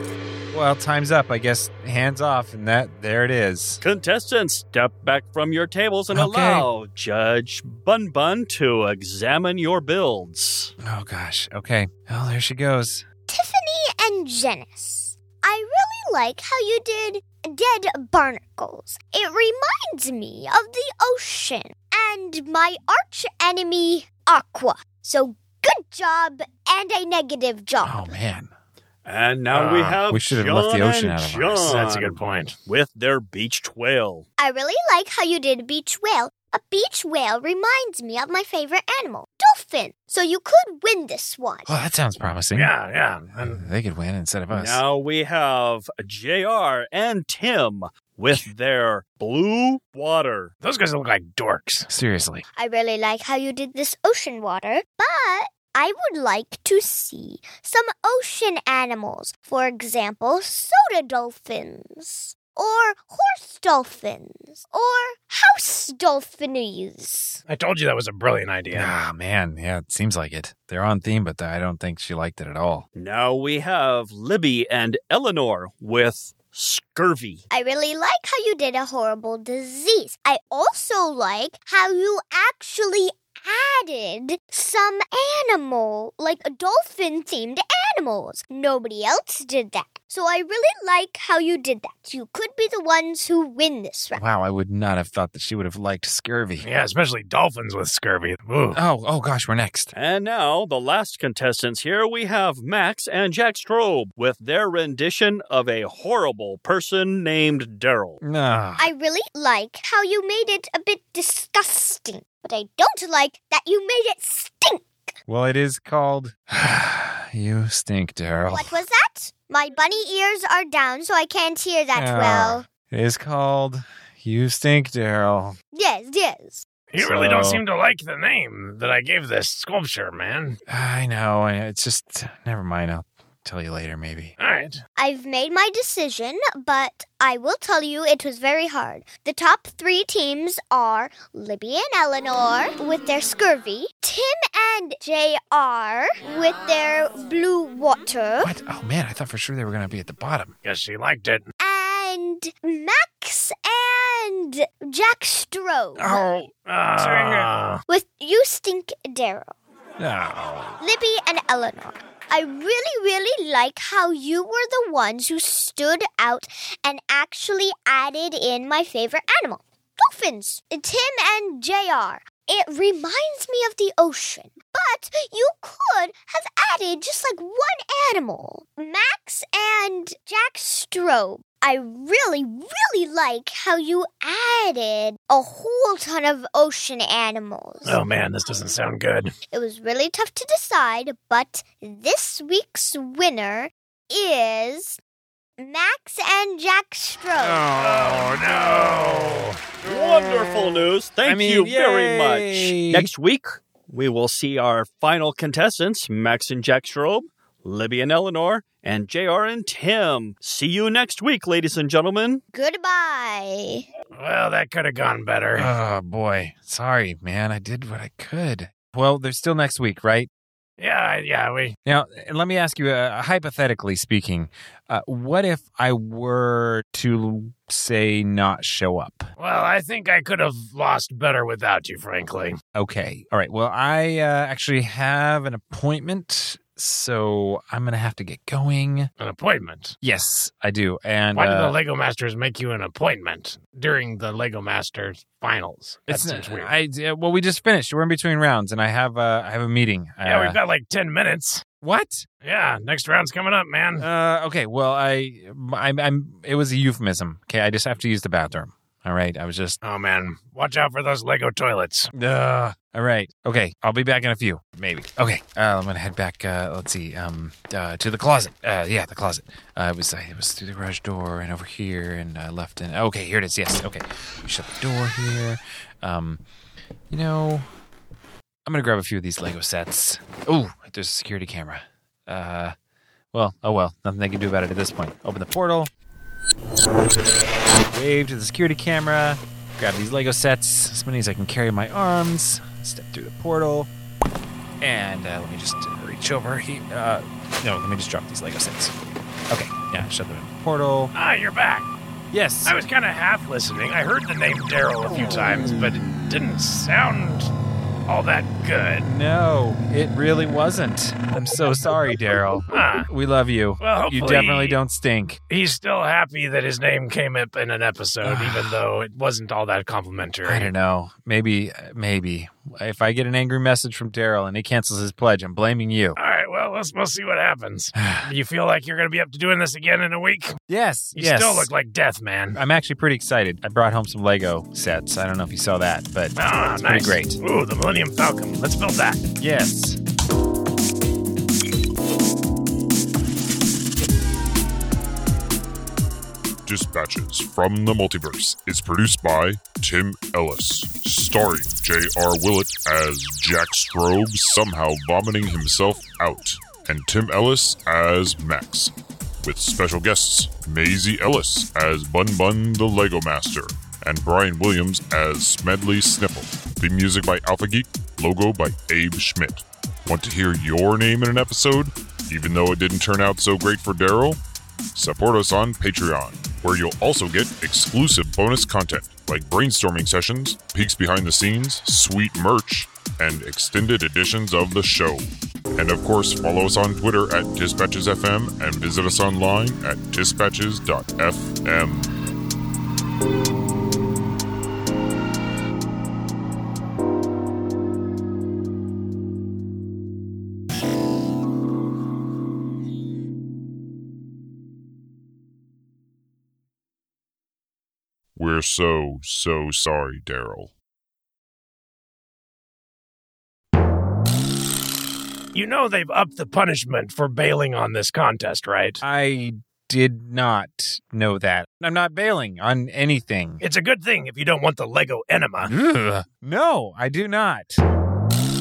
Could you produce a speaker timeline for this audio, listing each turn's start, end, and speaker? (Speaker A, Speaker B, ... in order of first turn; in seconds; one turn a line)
Speaker A: 0.5-3.8
Speaker B: 3.8-10.7
Speaker A: 6.1-6.7
Speaker A: 10.8-13.0
Speaker C: 13.3-28.1
Speaker A: 27.8-28.5
Speaker B: 29.0-34.2
Speaker D: 29.5-30.0
Speaker A: 30.1-31.7
Speaker D: 31.6-32.5
Speaker C: 34.4-41.7
Speaker A: 41.6-42.7
Speaker D: 42.5-43.6
Speaker A: 43.3-44.8
Speaker B: 44.5-50.5
Speaker D: 50.6-51.9
Speaker A: 51.9-52.4
Speaker C: 52.5-67.4
Speaker D: 67.5-68.9
Speaker A: 68.7-72.8
Speaker B: 73.0-77.4
Speaker C: 77.5-94.2
Speaker A: 94.1-96.7
Speaker D: 96.6-98.8
Speaker A: 98.7-99.9
Speaker B: 99.9-108.2
Speaker A: 108.2-108.9
Speaker C: 108.8-115.1
Speaker A: 115.3-118.8
Speaker C: 118.5-122.7
Speaker A: 121.9-125.6
Speaker C: 125.7-126.7
Speaker D: 126.9-130.6
Speaker A: 127.0-127.6
Speaker A: 130.7-134.3
Speaker D: 134.4-134.8
Speaker C: 135.0-148.5
Speaker A: 148.4-150.5
Speaker D: 150.6-151.4
Speaker C: 151.6-156.2
Speaker A: 156.0-157.5
Speaker D: 156.7-157.8
Speaker C: 157.9-159.5
Speaker A: 160.0-160.8
Speaker C: 160.8-188.0
Speaker D: 187.8-189.3
Speaker C: 189.5-195.0
Speaker C: 195.6-197.6
Speaker A: 197.4-199.5
Speaker D: 197.8-199.6
Speaker B: 199.8-212.4
Speaker A: 201.2-203.1
Speaker C: 212.5-213.8
Speaker D: 214.1-215.7
Speaker A: 215.5-220.3
Speaker D: 220.8-221.7
Speaker A: 221.8-229.3
Speaker D: 229.4-232.6
Speaker A: 232.7-239.1
Speaker D: 239.2-239.9
Speaker A: 240.0-241.8
Speaker D: 241.3-246.7
Speaker A: 246.1-250.6
Speaker D: 250.2-251.6
Speaker A: 251.8-252.2
Speaker D: 252.4-254.1
Speaker A: 254.0-259.8
Speaker D: 259.8-262.1
Speaker A: 262.1-276.4
Speaker A: 277.1-277.7
Speaker A: 278.6-282.7
Speaker A: 283.3-285.9
Speaker A: 287.9-293.9
Speaker A: 294.8-298.9
Speaker A: 299.5-301.1
Speaker D: 301.1-301.9
Speaker A: 302.3-302.7
Speaker D: 302.6-307.5
Speaker D: 308.1-309.1
Speaker A: 309.0-315.4
Speaker D: 312.7-313.1
Speaker D: 313.8-314.8
Speaker D: 315.5-320.7
Speaker A: 318.2-318.8
Speaker A: 320.4-326.2
Speaker D: 326.1-330.5
Speaker A: 327.9-328.3
Speaker A: 330.7-331.7
Speaker D: 331.1-332.6
Speaker A: 332.5-337.4
Speaker D: 336.4-339.2
Speaker A: 339.4-340.0
Speaker E: 346.6-374.4
Speaker E: 374.9-392.1
Speaker E: 408.4-410.7
Speaker D: 415.5-419.0
Speaker A: 419.0-423.6
Speaker D: 423.6-425.7
Speaker A: 425.6-427.8